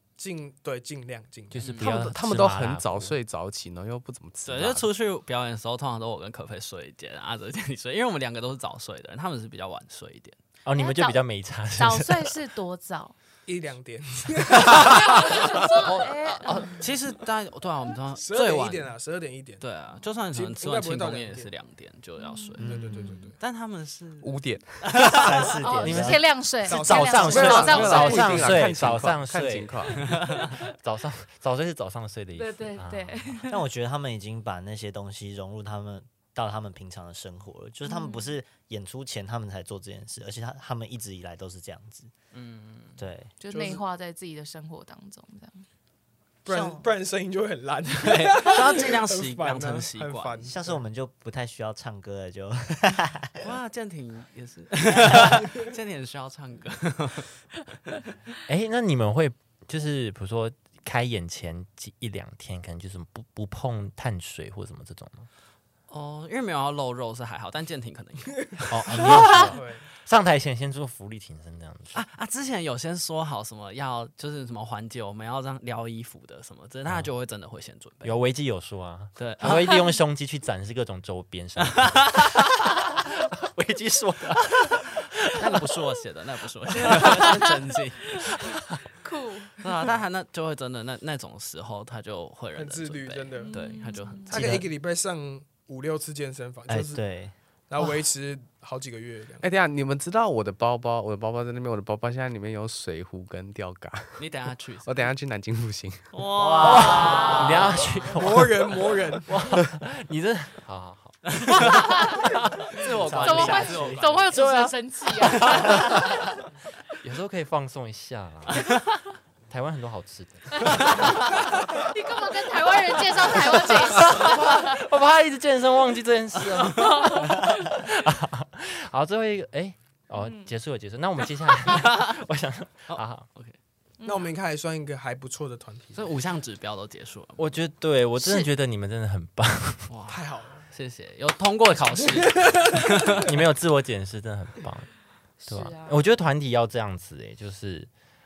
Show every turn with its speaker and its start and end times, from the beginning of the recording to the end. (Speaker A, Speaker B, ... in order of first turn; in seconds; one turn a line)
Speaker A: 0.2-1.8
Speaker B: 1.5-3.2
Speaker C: 1.6-2.0
Speaker D: 1.8-4.8
Speaker C: 4.4-10.4
Speaker B: 10.6-12.4
Speaker E: 10.7-11.2
Speaker E: 11.7-13.1
Speaker A: 13.4-15.4
Speaker E: 14.7-16.8
Speaker B: 15.8-16.7
Speaker C: 16.3-18.9
Speaker A: 18.1-19.6
Speaker C: 19.6-25.6
Speaker A: 20.3-21.5
Speaker E: 22.2-23.3
Speaker A: 22.6-23.4
Speaker F: 22.6-23.1
Speaker D: 24.2-24.8
Speaker F: 25.0-26.2
Speaker E: 25.5-28.6
Speaker B: 25.8-33.4
Speaker A: 26.6-28.5
Speaker D: 27.2-30.1
Speaker C: 30.1-30.4
Speaker E: 32.3-33.6
Speaker F: 33.5-42.1
Speaker E: 37.8-38.3
Speaker C: 42.3-43.0
Speaker F: 43.0-43.3
Speaker E: 43.4-45.7
Speaker A: 43.5-43.8
Speaker A: 46.4-50.8
Speaker C: 48.0-50.5
Speaker F: 50.4-53.4
Speaker C: 53.4-57.4
Speaker B: 58.5-65.3
Speaker C: 65.9-69.5
Speaker B: 68.7-72.0
Speaker A: 69.3-69.9
Speaker C: 71.9-78.2
Speaker B: 78.0-82.4
Speaker C: 79.2-79.8
Speaker E: 79.4-80.0
Speaker C: 81.8-82.3
Speaker B: 82.9-85.6
Speaker C: 85.3-88.3
Speaker E: 86.8-87.5
Speaker E: 89.0-89.9
Speaker C: 89.6-94.6
Speaker A: 92.5-93.6
Speaker E: 93.4-94.4
Speaker A: 94.3-97.0
Speaker F: 94.3-94.6
Speaker F: 96.7-97.3
Speaker A: 97.7-99.4
Speaker D: 99.4-104.3
Speaker C: 104.2-105.1
Speaker D: 104.8-106.1
Speaker C: 106.1-108.0
Speaker F: 106.3-107.4
Speaker B: 106.6-112.7
Speaker E: 106.7-108.0
Speaker A: 108.1-109.4
Speaker C: 111.3-112.0
Speaker E: 111.5-112.3
Speaker C: 112.7-114.3
Speaker F: 112.9-114.1
Speaker E: 113.1-116.4
Speaker B: 114.3-116.1
Speaker C: 115.4-115.7
Speaker B: 117.0-118.7
Speaker E: 118.7-119.1
Speaker B: 119.5-121.6
Speaker E: 120.5-124.8
Speaker B: 123.2-133.3
Speaker E: 126.7-127.8
Speaker E: 130.2-130.5
Speaker C: 131.7-132.1
Speaker C: 132.9-133.6
Speaker E: 134.0-134.3
Speaker A: 134.0-136.1
Speaker C: 135.9-137.5
Speaker B: 137.4-139.9
Speaker C: 139.9-143.3
Speaker A: 140.1-140.7
Speaker A: 142.0-143.3
Speaker B: 143.2-144.9
Speaker E: 145.4-146.0
Speaker B: 145.5-147.9